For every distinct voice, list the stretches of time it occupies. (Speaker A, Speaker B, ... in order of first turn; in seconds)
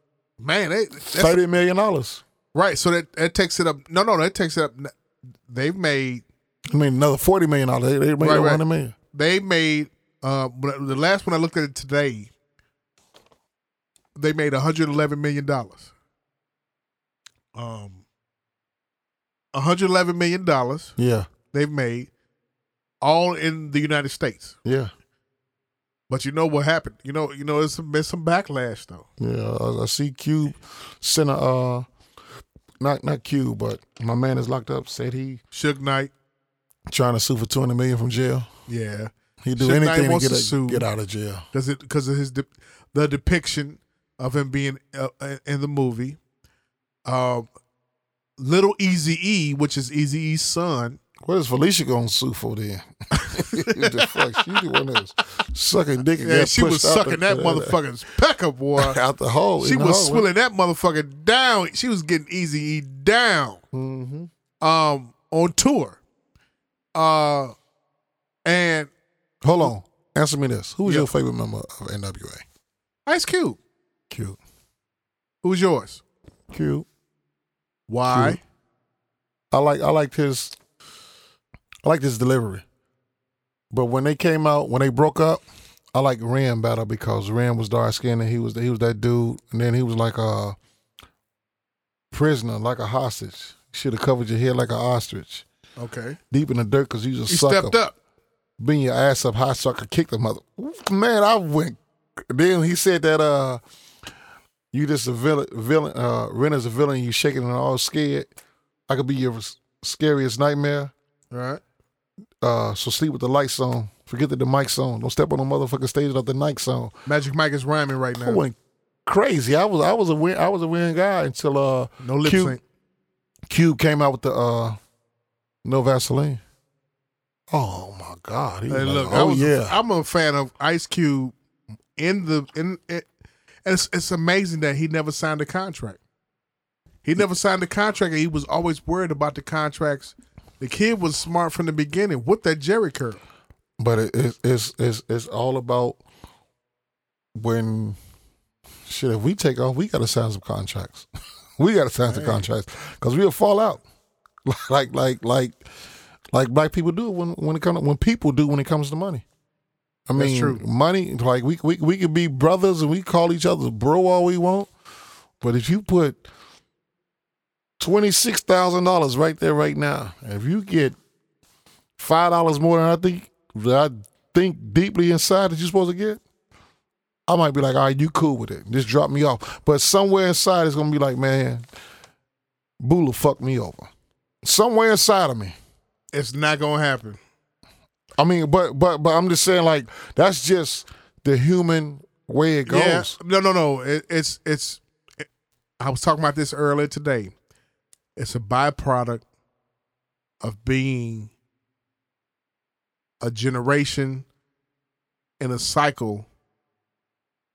Speaker A: 0.4-1.4, 2.5-4.9, 5.5-6.2, 8.2-12.3, 14.2-15.9, 17.5-18.0, 19.5-20.9, 21.5-22.1, 23.0-24.6, 26.1-29.1, 35.5-36.1, 38.7-40.9, 41.5-46.2, 47.0-47.5, 48.4-51.0, 53.2-54.2, 56.2-59.0, 59.6-63.6, 64.6-66.0, 66.9-67.5, 68.5-68.9, 73.0-73.6, 75.4-76.0, 77.9-78.4, 95.8-96.2, 97.3-97.9, 111.3-111.6, 117.1-118.4, 122.0-122.6, 128.7-131.3, 132.0-133.1, 133.6-136.0, 137.0-143.2, 152.1-152.4, 160.2-160.6, 186.1-187.2, 192.7-195.2, 195.8-197.3, 198.2-199.2, 200.4-201.3, 203.2-204.2, 205.4-206.3
Speaker B: 1.1-2.2, 6.7-8.9, 21.0-21.3, 24.6-24.9, 29.2-31.9, 32.8-35.4, 36.9-38.5, 39.4-41.4, 51.2-57.8, 58.8-60.3, 63.7-64.3, 69.4-72.4, 74.1-74.4, 76.5-76.9, 78.1-78.4, 79.5-80.5, 81.8-82.6, 83.7-85.4, 85.9-90.5, 92.1-95.5, 96.3-97.8, 98.6-103.6, 104.7-108.3, 108.9-110.9, 112.4-116.9, 118.2-122.6, 123.5-124.8, 125.6-126.4, 127.5-129.8, 143.8-146.0, 147.3-148.0, 148.8-153.8, 154.4-155.6, 156.3-159.2, 160.1-164.7, 165.4-166.2, 167.8-170.9, 172.0-176.2, 177.3-181.6, 182.8-183.9, 184.4-185.6, 188.2-193.2